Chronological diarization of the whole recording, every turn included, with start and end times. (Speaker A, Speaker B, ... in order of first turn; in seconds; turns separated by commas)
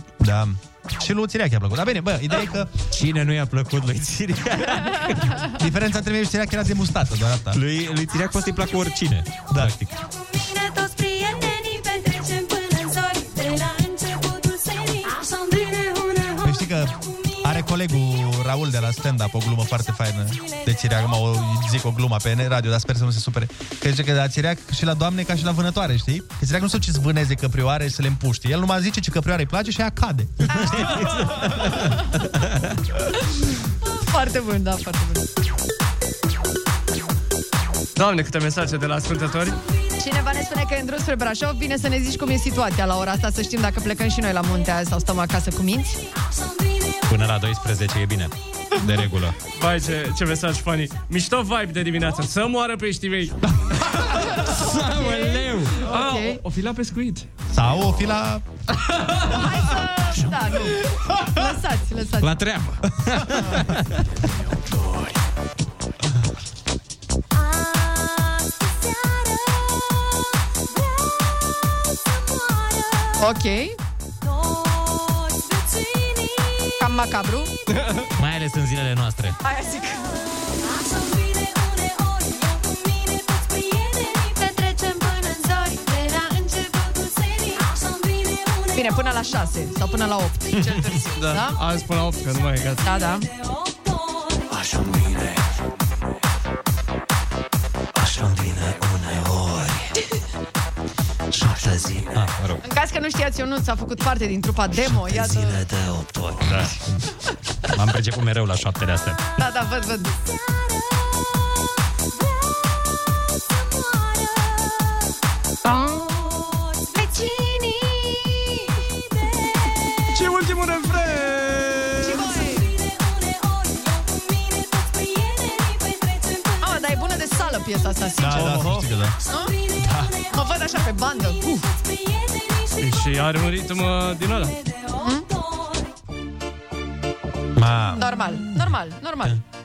Speaker A: 0.2-2.7, Speaker B: 2.9-5.4, Speaker A: 5.5-7.6, Speaker B: 7.5-9.9, Speaker C: 10.2-16.6, Speaker A: 16.4-31.1, Speaker B: 30.5-31.9, Speaker D: 30.6-30.8, Speaker D: 34.0-35.2, Speaker E: 38.0-39.6, Speaker D: 40.0-46.0, Speaker B: 47.1-49.4, Speaker E: 49.5-53.3, Speaker D: 54.1-56.4, Speaker B: 54.3-55.8, Speaker E: 55.8-57.3, Speaker A: 57.5-58.4, Speaker D: 59.3-60.8, Speaker D: 61.3-62.3, Speaker B: 62.2-64.0, Speaker C: 67.5-69.6, Speaker C: 72.3-73.0, Speaker D: 73.2-73.8, Speaker C: 75.6-76.2, Speaker D: 76.8-77.5, Speaker E: 77.7-78.1, Speaker B: 78.2-79.4, Speaker D: 79.4-80.1, Speaker C: 87.4-87.7, Speaker D: 88.7-91.6, Speaker B: 90.5-90.8, Speaker E: 91.2-92.9, Speaker D: 92.8-93.3, Speaker B: 101.5-102.6, Speaker D: 102.6-105.6, Speaker B: 105.3-105.6, Speaker B: 106.4-107.1, Speaker B: 107.7-109.3, Speaker D: 109.4-110.1, Speaker D: 116.9-118.5, Speaker E: 120.1-122.2, Speaker D: 122.0-122.7, Speaker D: 126.6-128.7, Speaker A: 128.2-129.2, Speaker E: 128.4-128.8, Speaker D: 129.3-129.5, Speaker A: 129.8-130.2, Speaker D: 130.2-131.7, Speaker E: 132.8-134.6, Speaker D: 135.0-135.3, Speaker A: 137.6-138.0, Speaker D: 138.0-139.4